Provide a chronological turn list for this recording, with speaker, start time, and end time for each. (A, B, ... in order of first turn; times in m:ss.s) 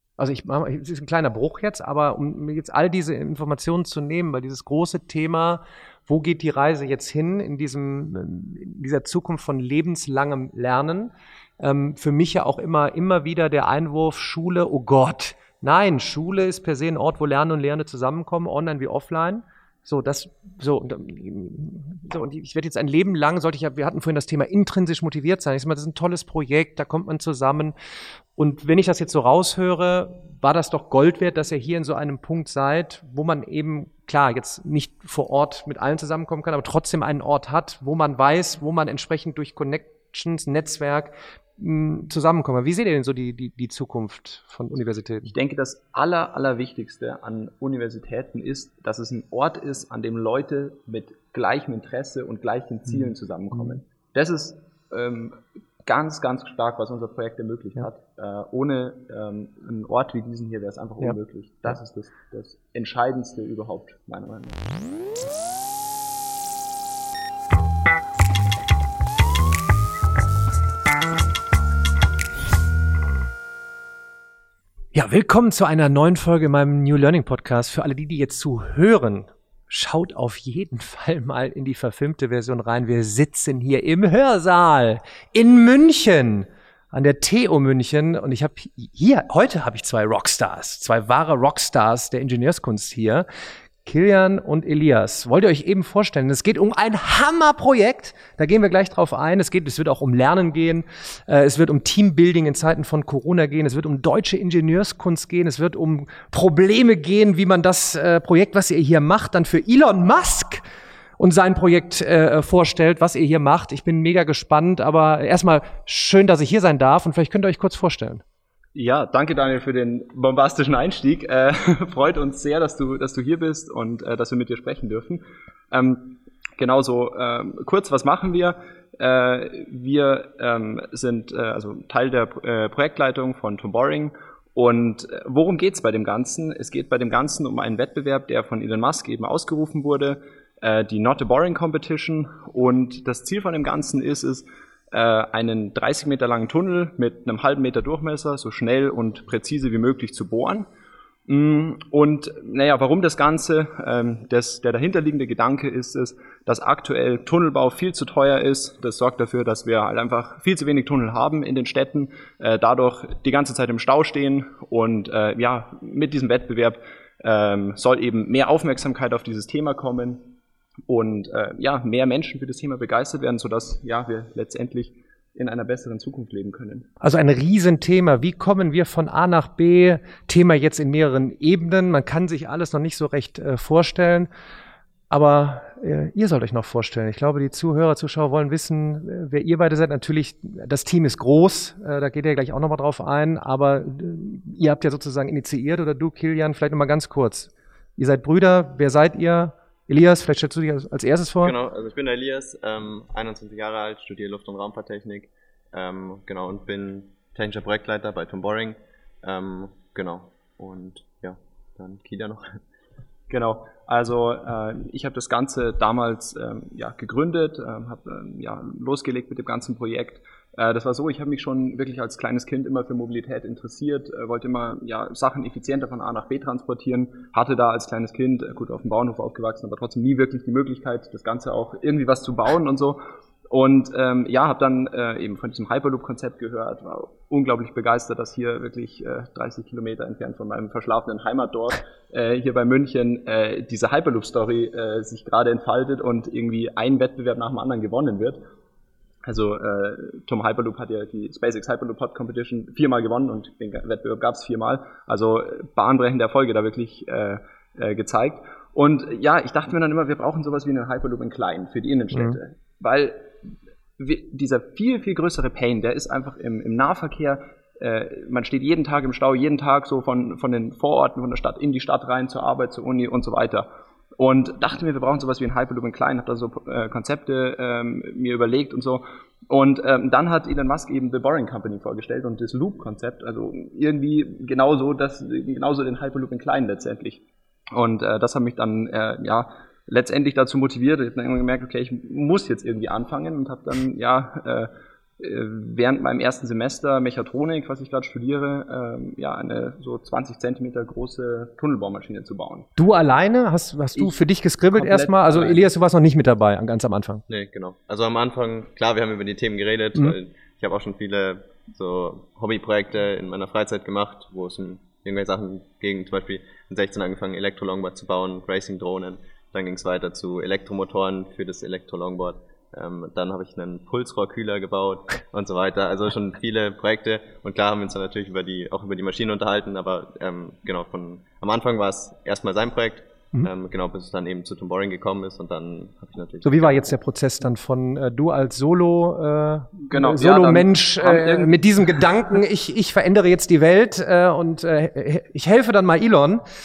0:00.2-0:27.7 A
0:28.4-0:45.3 A
0:45.3-1:04.7 B
0:52.9-0:53.8 A
1:14.9-1:33.2 A
1:33.8-1:50.6 A
1:51.2-1:58.2 A
1:58.7-2:30.7 B
2:31.3-2:50.3 B
2:50.9-2:56.9 B
2:57.0-3:04.3 A
3:05.1-3:21.5 A
3:21.4-3:32.6 C
3:33.3-3:53.0 B
3:53.5-4:08.4 B
4:09.2-4:23.4 B
4:22.1-4:22.4 A
4:24.0-4:33.7 B
4:34.2-5:02.7 B
5:02.8-5:07.2 A
5:04.7-5:05.7 B
5:07.3-5:36.9 C
5:36.4-5:46.4 A
5:39.9-5:42.1 B